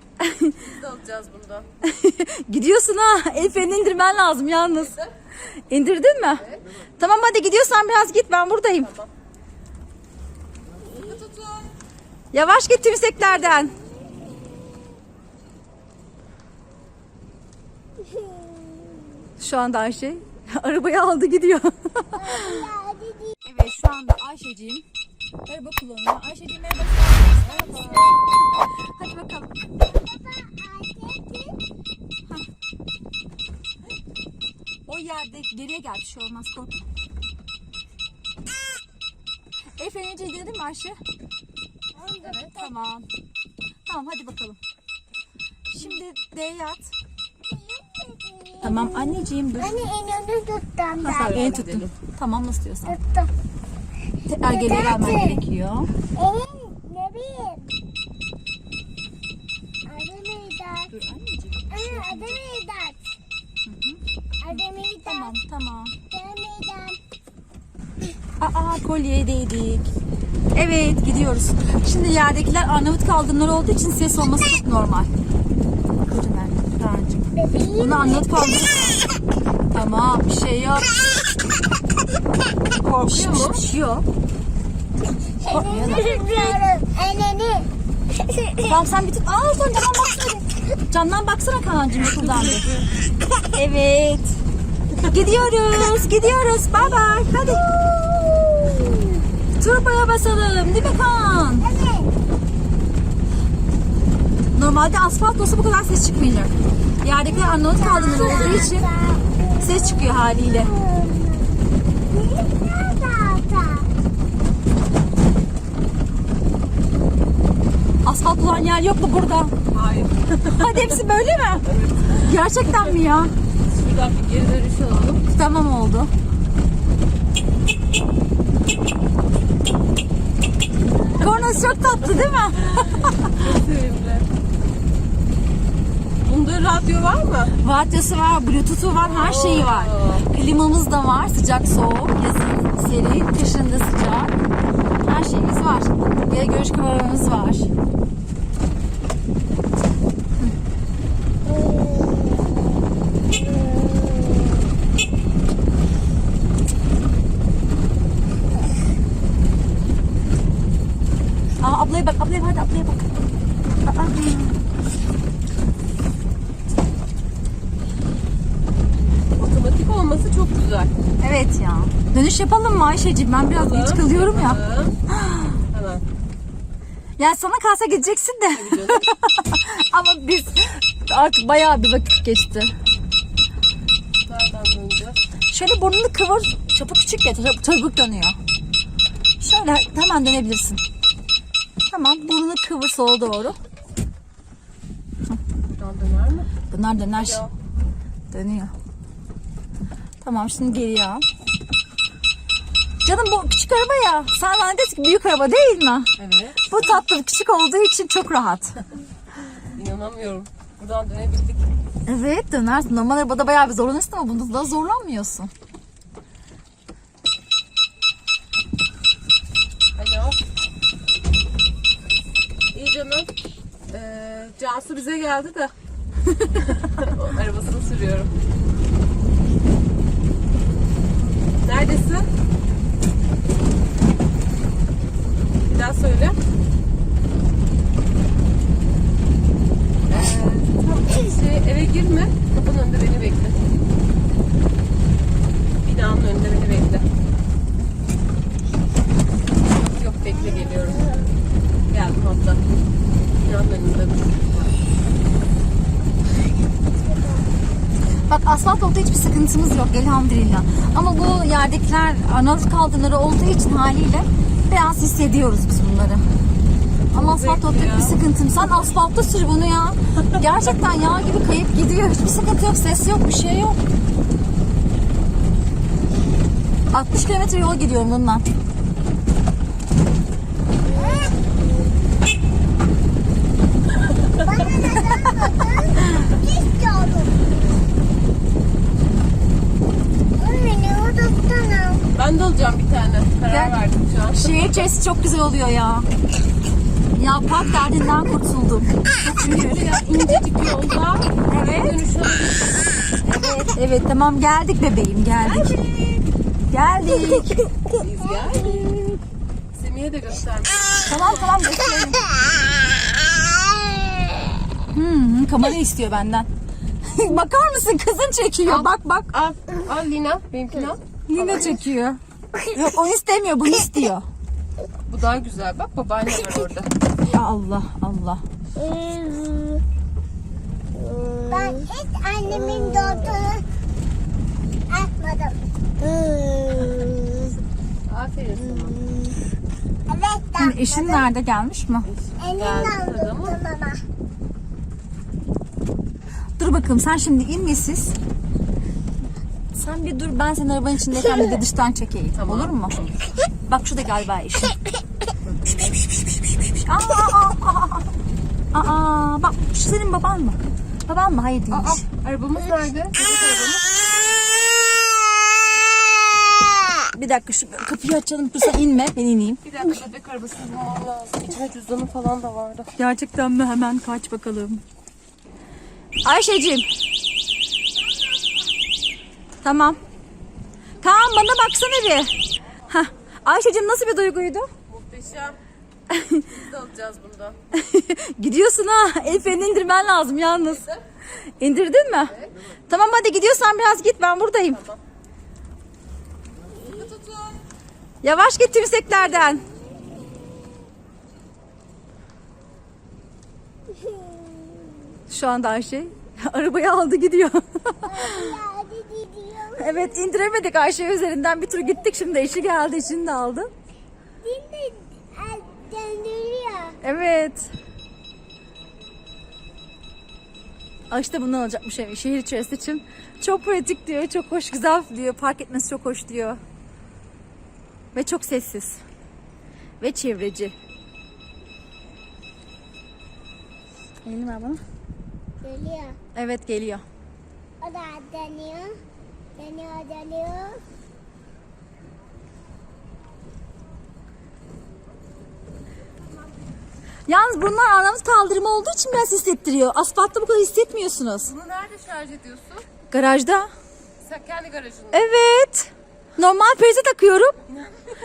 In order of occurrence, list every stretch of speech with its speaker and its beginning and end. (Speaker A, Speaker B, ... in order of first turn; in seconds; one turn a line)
Speaker A: 0.2-0.6
Speaker B: 0.6-1.6
Speaker A: 1.8-5.0
Speaker B: 4.8-5.0
Speaker A: 5.7-6.5
Speaker B: 6.4-6.6
Speaker A: 7.0-8.9
Speaker B: 8.8-9.1
Speaker B: 11.0-11.7
Speaker A: 12.3-13.7
Speaker A: 19.4-22.7
Speaker C: 22.1-23.4
Speaker A: 23.4-24.8
Speaker A: 25.4-29.5
Speaker B: 27.4-28.1
Speaker C: 29.8-31.6
Speaker A: 34.9-36.7
Speaker A: 39.8-41.0
Speaker C: 41.9-42.5
Speaker B: 42.2-42.5
Speaker A: 42.5-43.0
Speaker A: 43.9-44.6
Speaker A: 45.7-46.9
Speaker C: 47.5-51.6
Speaker A: 48.6-49.9
Speaker A: 51.0-53.0
Speaker B: 51.0-51.9
Speaker C: 52.9-53.3
Speaker A: 54.3-55.9
Speaker C: 54.5-55.4
Speaker C: 56.1-57.7
Speaker C: 59.9-60.9
Speaker A: 60.9-62.4
Speaker C: 61.7-63.0
Speaker A: 63.6-64.0
Speaker C: 64.4-65.4
Speaker A: 64.5-66.0
Speaker C: 66.1-67.0
Speaker A: 68.4-69.9
Speaker A: 70.5-75.1
Speaker A: 76.1-79.0
Speaker C: 77.3-78.3
Speaker A: 79.7-80.9
Speaker B: 82.8-83.6
Speaker A: 83.0-84.0
Speaker C: 85.4-87.7
Speaker A: 85.5-86.6
Speaker C: 88.2-88.6
Speaker A: 88.6-92.7
Speaker B: 92.0-92.8
Speaker A: 93.5-94.4
Speaker A: 95.0-97.7
Speaker C: 96.8-99.2
Speaker A: 99.6-101.7
Speaker C: 101.6-102.1
Speaker A: 104.5-108.9
Speaker C: 107.2-111.5
Speaker A: 109.6-110.7
Speaker C: 112.1-113.9
Speaker A: 118.0-119.5
Speaker B: 119.7-121.0
Speaker A: 120.5-123.3
Speaker B: 121.7-123.0
Speaker B: 123.7-125.2
Speaker A: 125.3-126.1
Speaker A: 131.1-133.3
Speaker B: 132.8-134.3
Speaker B: 136.2-137.6
Speaker A: 137.6-144.3
Speaker B: 139.0-140.3
Speaker A: 145.0-147.7
Speaker C: 151.7-152.3
Speaker A: 161.6-164.6
Speaker B: 169.3-170.9
Speaker A: 171.2-174.6
Speaker B: 173.5-175.0
Speaker A: 175.1-175.6
Speaker B: 175.7-176.0
Speaker A: 177.2-182.7
Speaker B: 178.5-179.1
Speaker B: 184.2-185.2
Speaker A: 185.5-188.4
Speaker A: 189.4-190.8
Speaker A: 191.9-193.6
Speaker B: 195.7-196.5
Speaker A: 196.7-197.4
Speaker B: 197.1-197.5
Speaker A: 198.3-198.7
Speaker A: 200.2-201.2
Speaker A: 203.0-206.1
Speaker B: 206.2-206.7
Speaker A: 206.7-208.8
Speaker B: 209.7-211.7
Speaker A: 212.1-215.5
Speaker B: 219.9-220.4
Speaker B: 222.7-223.3
Speaker B: 223.9-225.7
Speaker B: 226.4-228.3
Speaker B: 231.6-232.3
Speaker B: 235.6-236.4
Speaker B: 240.1-243.7
Speaker B: 245.8-247.1
Speaker B: 249.7-251.1
Speaker B: 251.9-252.6
Speaker B: 253.4-254.7
Speaker A: 258.2-266.2
Speaker A: 267.1-273.8
Speaker B: 267.1-268.2
Speaker A: 276.9-278.4
Speaker C: 280.9-281.4
Speaker C: 284.4-287.5
Speaker C: 290.4-292.0
Speaker B: 292.1-294.7
Speaker A: 293.5-293.7
Speaker A: 294.3-296.1
Speaker A: 297.1-299.9
Speaker B: 299.4-302.9
Speaker A: 301.4-302.0
Speaker A: 303.3-305.8
Speaker B: 305.5-306.2
Speaker A: 306.7-307.5
Speaker C: 307.3-307.8
Speaker B: 308.0-308.9
Speaker C: 308.4-309.2
Speaker B: 309.7-311.4
Speaker A: 311.1-312.2
Speaker C: 314.0-314.4
Speaker A: 314.9-316.5
Speaker A: 317.0-319.3
Speaker B: 318.6-321.8
Speaker A: 321.3-324.2
Speaker B: 325.1-326.9
Speaker A: 327.2-328.4
Speaker C: 328.8-329.8
Speaker C: 331.2-333.6
Speaker C: 334.9-337.6
Speaker B: 338.1-339.0
Speaker C: 340.1-341.3
Speaker A: 340.6-342.1
Speaker B: 342.3-343.6
Speaker C: 342.4-344.0
Speaker A: 346.6-348.1
Speaker A: 349.7-352.9
Speaker B: 352.3-353.1
Speaker A: 353.6-354.8
Speaker B: 355.4-356.0
Speaker A: 356.6-358.1
Speaker A: 358.7-362.0
Speaker B: 361.7-364.0
Speaker A: 367.0-369.6
Speaker B: 369.6-372.9
Speaker A: 372.9-374.8
Speaker A: 376.2-376.9
Speaker A: 379.6-380.0
Speaker A: 381.0-382.3
Speaker A: 382.9-384.7
Speaker B: 384.9-385.6
Speaker A: 386.1-386.4
Speaker B: 386.5-387.6
Speaker A: 387.7-390.9
Speaker B: 390.7-391.0
Speaker A: 391.6-392.4
Speaker B: 392.3-392.6
Speaker A: 392.9-394.8
Speaker B: 394.7-395.0
Speaker B: 396.9-397.6
Speaker A: 398.2-399.6
Speaker A: 405.3-408.6
Speaker C: 408.0-410.2
Speaker A: 409.8-413.7
Speaker C: 414.4-417.0
Speaker A: 417.0-417.7
Speaker A: 421.1-426.6
Speaker A: 428.1-429.0
Speaker A: 430.0-430.7
Speaker A: 434.2-434.8
Speaker C: 435.6-436.2
Speaker A: 436.3-437.0
Speaker C: 437.8-439.0
Speaker C: 439.6-440.8
Speaker A: 447.3-451.5
Speaker B: 451.4-452.9
Speaker A: 453.1-453.7
Speaker B: 454.2-455.3
Speaker A: 455.1-457.6
Speaker B: 457.7-458.1